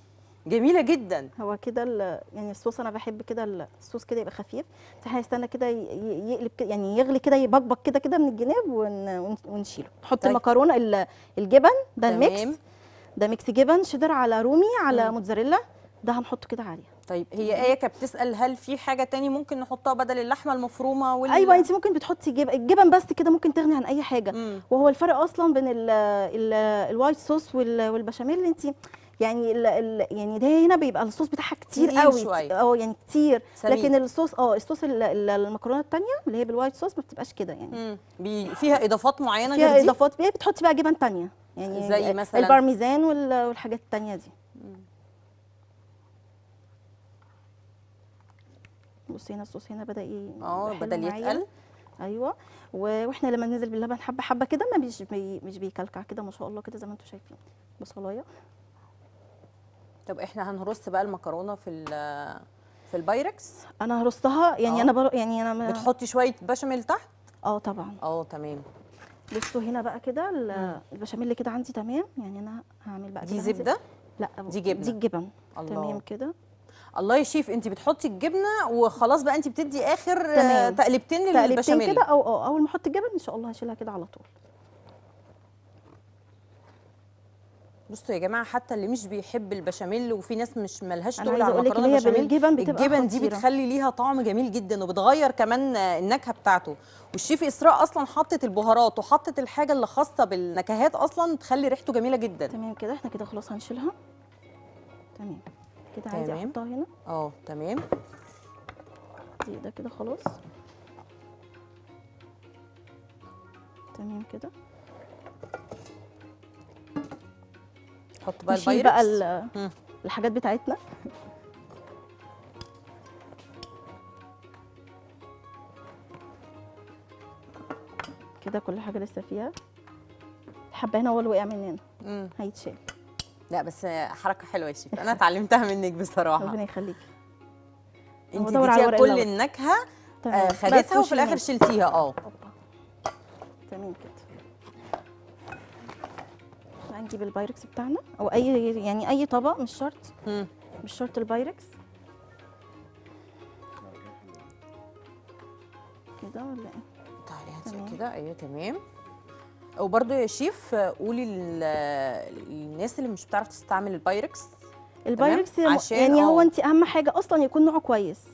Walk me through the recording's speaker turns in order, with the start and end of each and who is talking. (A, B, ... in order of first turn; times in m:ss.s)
0:00.5-0:01.3 A
0:01.4-0:12.6 B
0:12.1-0:12.6 A
0:13.2-0:16.9 B
0:17.1-0:21.7 A
0:17.4-0:17.7 B
0:21.3-0:37.8 B
0:24.3-0:24.6 A
0:31.8-0:32.5 A
0:33.6-0:33.9 A
0:37.7-0:40.0 A
0:39.5-0:44.3 B
0:41.7-0:42.6 A
0:44.6-0:44.8 A
0:49.1-0:51.4 B
0:50.4-0:51.4 A
0:52.0-0:58.2 B
1:00.1-1:03.6 A
1:03.8-1:05.9 B
1:04.7-1:04.9 A
1:05.6-1:07.0 A
1:07.4-1:08.0 B
1:08.0-1:08.6 A
1:09.3-1:16.3 B
1:10.5-1:10.8 A
1:13.2-1:13.8 A
1:14.5-1:15.0 A
1:15.6-1:16.0 A
1:17.0-1:22.0 A
1:20.4-1:20.8 B
1:21.3-1:24.3 B
1:27.9-1:42.5 A
1:31.2-1:33.4 B
1:42.5-1:43.9 B
1:45.2-1:46.9 B
1:46.1-1:46.6 A
1:47.1-1:47.8 A
1:49.4-1:50.3 B
1:54.0-1:54.5 B
1:58.2-1:59.7 A
1:58.5-1:59.5 B
2:00.0-2:00.8 B
2:08.4-2:09.5 B
2:10.7-2:11.8 B
2:12.0-2:12.3 A
2:12.4-2:12.8 B
2:13.5-2:16.6 A
2:16.4-2:17.1 B
2:18.3-2:22.2 A
2:18.4-2:19.3 B
2:20.2-2:21.5 B
2:22.2-2:22.5 B
2:23.7-2:24.2 B
2:26.9-2:30.1 B
2:30.8-2:31.7 B
2:36.2-2:36.8 B
2:37.2-2:38.8 A
2:37.7-2:38.0 B
2:39.8-2:44.5 A
2:45.1-2:48.2 B
2:45.2-2:46.5 A